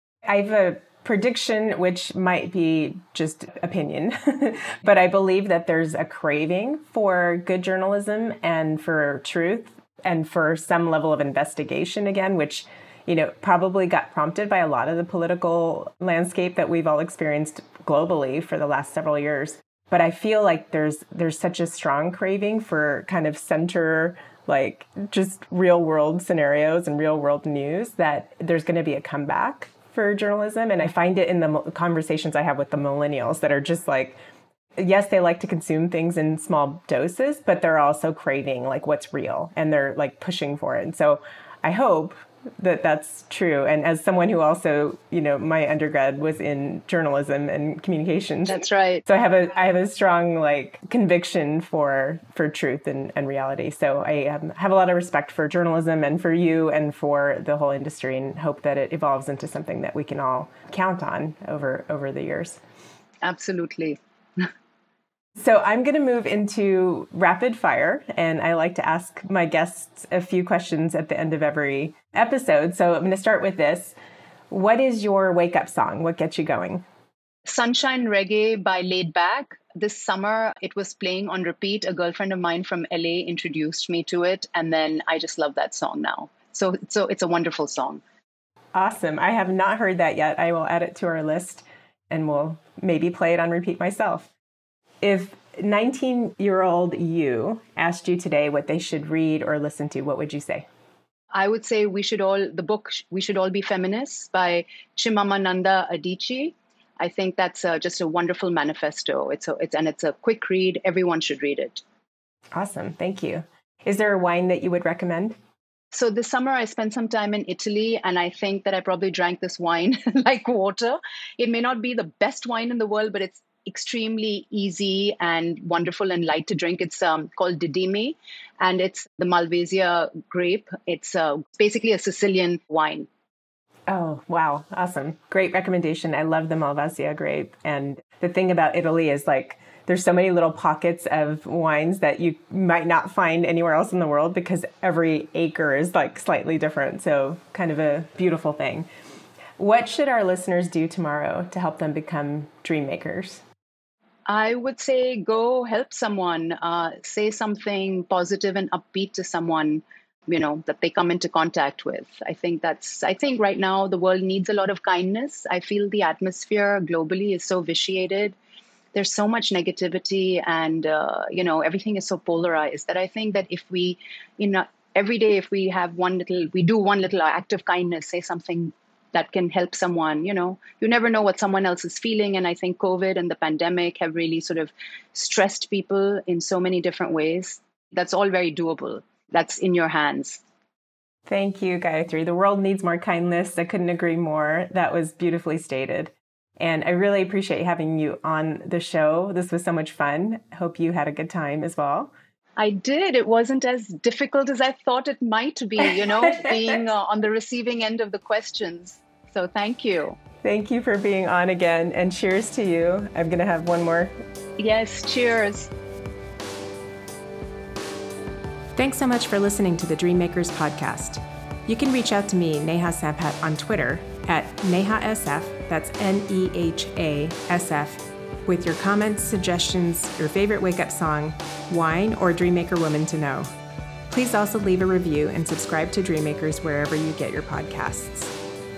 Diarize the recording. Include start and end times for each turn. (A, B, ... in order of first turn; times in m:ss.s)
0:00.2-0:34.2 A
0:34.8-1:02.6 A
0:48.5-0:49.0 B
1:03.2-1:04.5 B
1:05.4-1:13.9 A
1:14.5-1:16.8 A
1:17.4-1:28.0 B
1:28.7-1:34.3 A
1:35.0-1:40.7 A
1:41.3-1:51.8 B
1:52.5-1:55.4 A
1:55.9-2:13.1 B
2:13.9-2:28.9 A
2:29.6-2:33.4 A
2:34.3-2:48.4 B
2:48.9-3:10.4 B
3:11.3-3:22.1 A
3:22.6-3:30.2 B
3:26.1-3:26.5 A
3:30.4-3:34.1 A
3:34.6-3:35.7 B
3:38.8-3:53.5 A
3:54.1-3:58.3 A